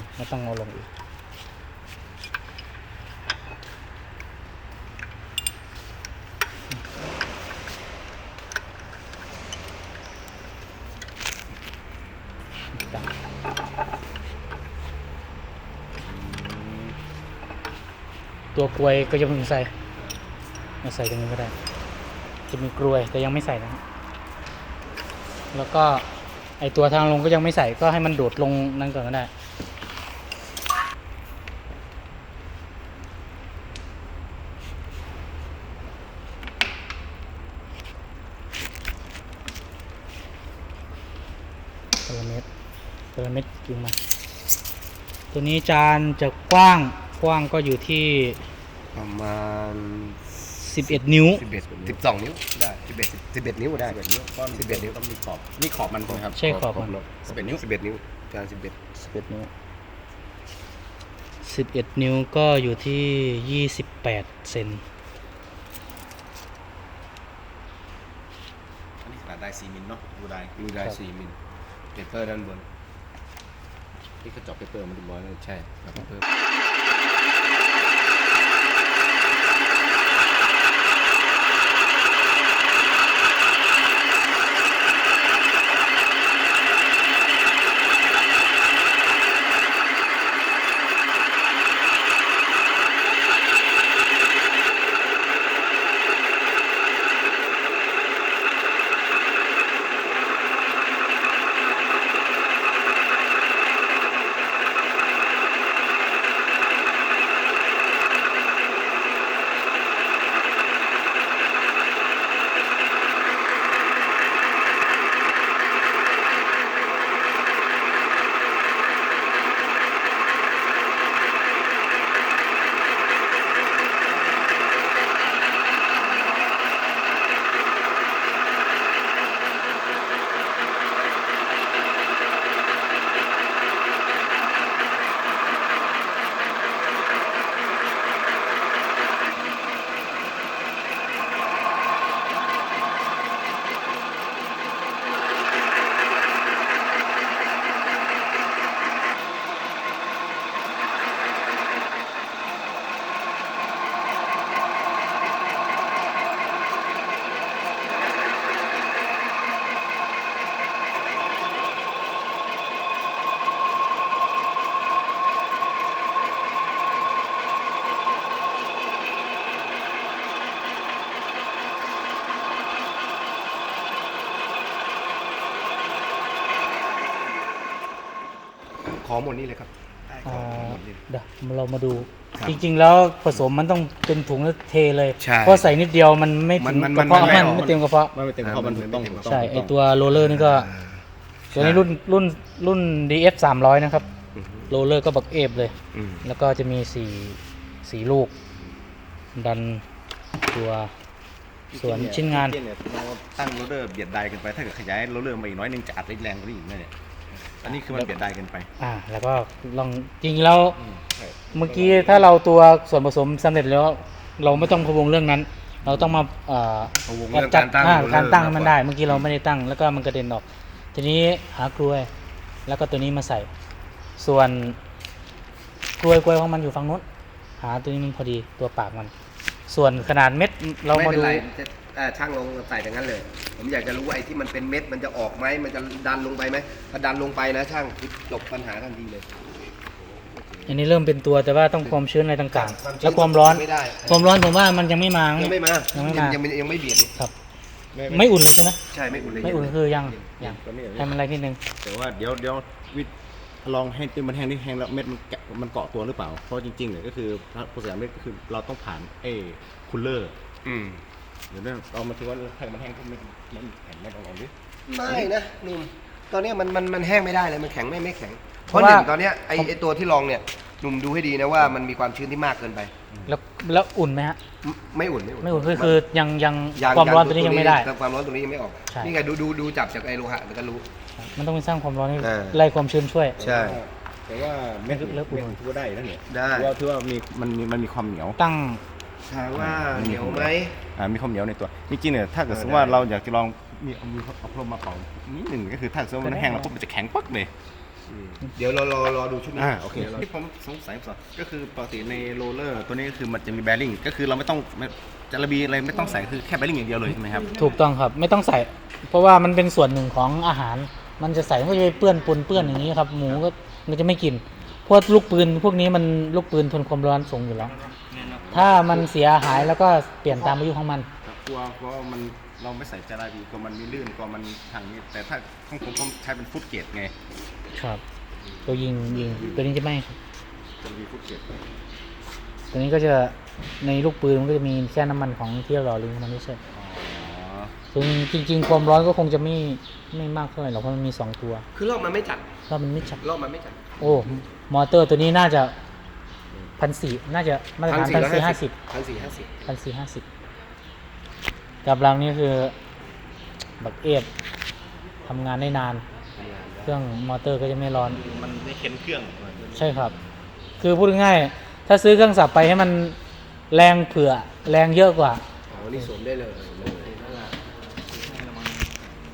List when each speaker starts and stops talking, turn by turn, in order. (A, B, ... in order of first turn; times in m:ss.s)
0:00.2-0:00.8 A
0:12.7-0:13.0 A
0:16.0-0:17.0 B
0:18.5-0:19.7 A
0:20.8-0:21.5 A
0:22.5-0:23.8 A
0:25.5-0:26.0 A
0:26.6-0:29.3 A
0:42.0-0:42.4 A
0:43.2-0:44.0 A
0:45.3-0:48.4 A
0:48.9-0:50.2 C
0:50.5-0:51.4 A
0:50.9-0:54.0 C
0:53.8-0:56.4 B
0:54.5-0:55.0 C
0:56.1-0:58.8 C
0:56.4-0:56.9 A
0:57.3-0:57.6 B
0:59.0-0:59.5 A
1:01.4-1:04.8 A
1:09.0-1:10.5 B
1:10.6-1:11.4 C
1:11.9-1:12.7 C
1:14.2-1:15.4 B
1:15.3-1:16.2 C
2:58.9-3:01.0 C
3:00.2-3:08.1 A
3:05.2-3:05.7 C
3:06.6-3:07.8 C
3:07.0-3:09.7 B
3:08.4-3:09.3 C
3:09.3-3:10.7 A
3:10.2-3:11.9 C
3:11.6-3:14.0 A
3:14.4-3:14.7 C
3:14.7-3:18.3 A
3:15.9-3:16.3 C
3:19.4-3:19.8 A
3:20.5-3:20.9 A
3:21.7-3:26.9 B
3:21.8-3:22.6 A
3:27.6-3:28.7 B
3:28.8-3:30.8 A
3:30.8-3:32.3 B
3:31.5-3:42.1 A
3:35.8-3:36.2 B
3:37.0-3:39.2 C
3:42.7-3:43.5 A
3:44.2-3:44.8 A
3:46.0-3:47.0 A
3:47.6-3:49.1 A
3:49.7-3:51.4 A
3:50.9-3:59.3 C
4:00.3-4:00.7 C
4:00.7-4:06.4 A
4:02.5-4:04.3 C
4:05.4-4:07.1 C
4:07.9-4:08.3 B
4:08.1-4:08.8 A
4:08.9-4:10.3 C
4:09.2-4:09.6 B
4:09.4-4:11.6 A
4:10.4-4:11.1 B
4:11.8-4:13.1 B
4:13.6-4:20.4 B
4:20.6-4:21.0 C
4:21.5-4:24.5 B
4:24.9-4:32.9 C
4:28.7-4:29.7 A
4:33.3-4:34.4 A
4:34.6-4:36.0 C
4:35.4-4:37.9 A
4:36.8-4:40.9 C
4:41.2-4:43.4 A
4:42.2-4:42.6 C
4:43.4-4:48.4 B
4:43.4-4:43.8 C
4:44.9-4:45.6 A
4:46.3-4:46.7 C
4:48.4-4:48.8 A
4:49.3-4:50.8 C
4:49.6-4:57.5 B
4:52.5-4:53.0 C
4:56.2-4:56.7 A
4:58.1-5:00.2 C
4:59.6-5:07.6 B
5:07.6-5:17.7 A
5:17.8-5:19.1 B
5:18.5-5:21.1 A
5:21.2-5:27.1 B
5:27.8-5:28.0 A
5:28.7-5:30.2 A
5:30.8-5:31.5 B
5:32.7-5:36.6 A
5:36.7-5:37.7 B
5:37.9-5:41.6 A
5:41.7-5:42.5 C
5:42.7-5:43.2 A
5:43.2-5:43.8 C
5:44.0-5:45.7 A
5:46.8-5:48.7 A
5:47.9-5:49.5 C
5:49.7-5:50.2 A
5:51.8-5:52.7 A
5:53.8-5:54.3 A
5:55.3-5:56.0 A
5:56.4-5:56.9 C
5:56.9-5:58.2 A
5:58.1-5:59.8 B
5:59.8-6:00.1 A
6:00.8-6:03.2 A
6:03.7-6:05.4 A
6:05.7-6:07.6 C
6:08.2-6:08.9 B